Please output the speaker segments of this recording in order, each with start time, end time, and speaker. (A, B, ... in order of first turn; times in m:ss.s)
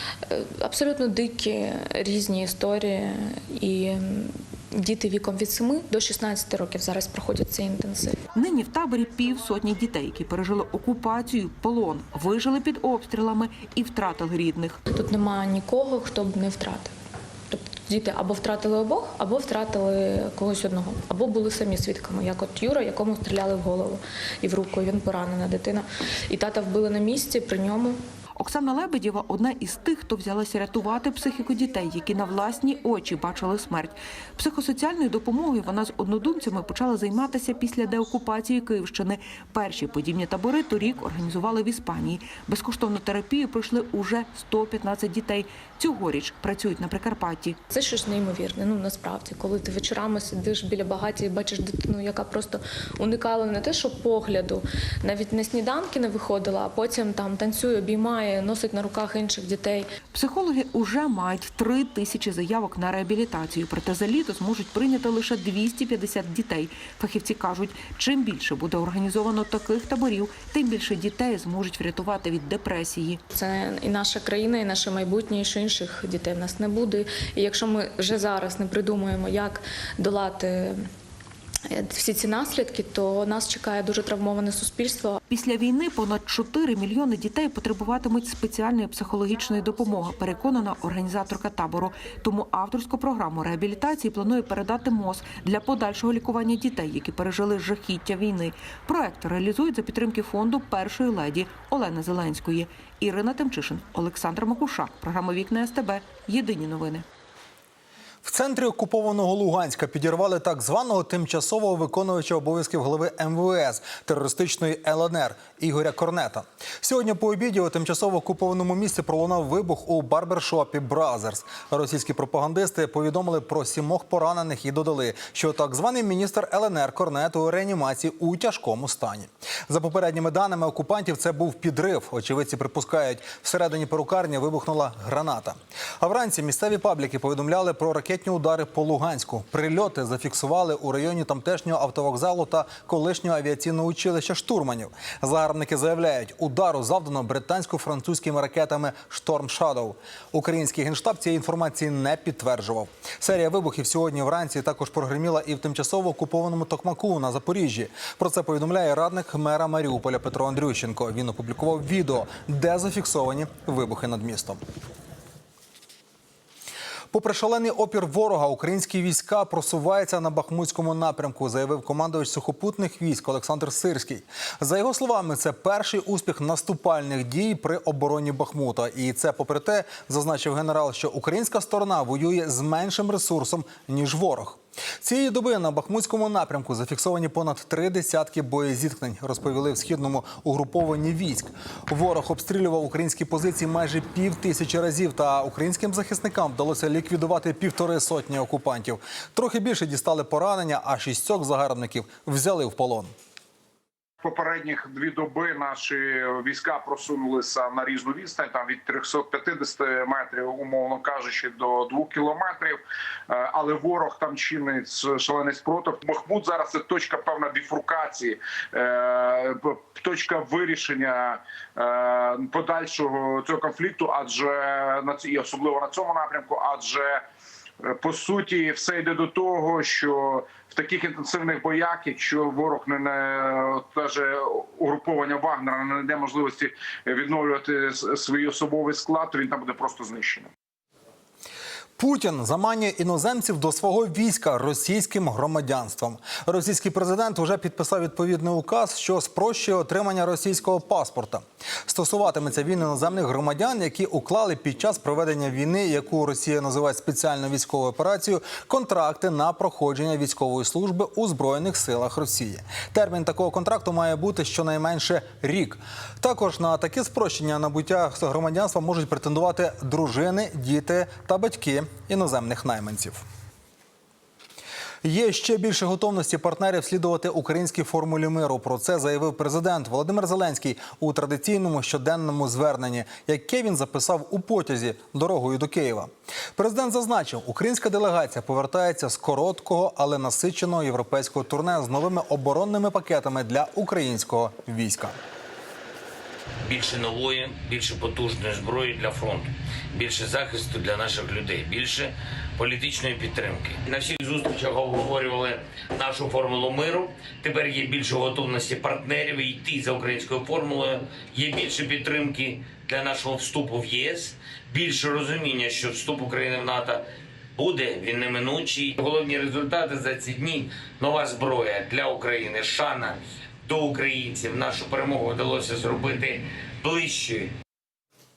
0:00.2-0:08.2 A
0:08.3-0:14.8 B
0:14.9-0:16.9 A
0:17.5-0:28.0 A
0:28.4-0:47.6 B
0:47.7-0:59.9 A
1:00.1-1:13.2 B
1:13.3-1:20.8 A
1:21.7-1:25.2 A
1:25.3-1:47.0 B
1:48.2-2:44.6 C
2:47.1-3:23.1 C
3:24.2-3:47.2 D
3:47.9-4:00.5 D
4:02.0-4:33.2 C
4:35.0-4:55.2 C
4:56.6-5:17.0 E
5:17.6-5:27.5 E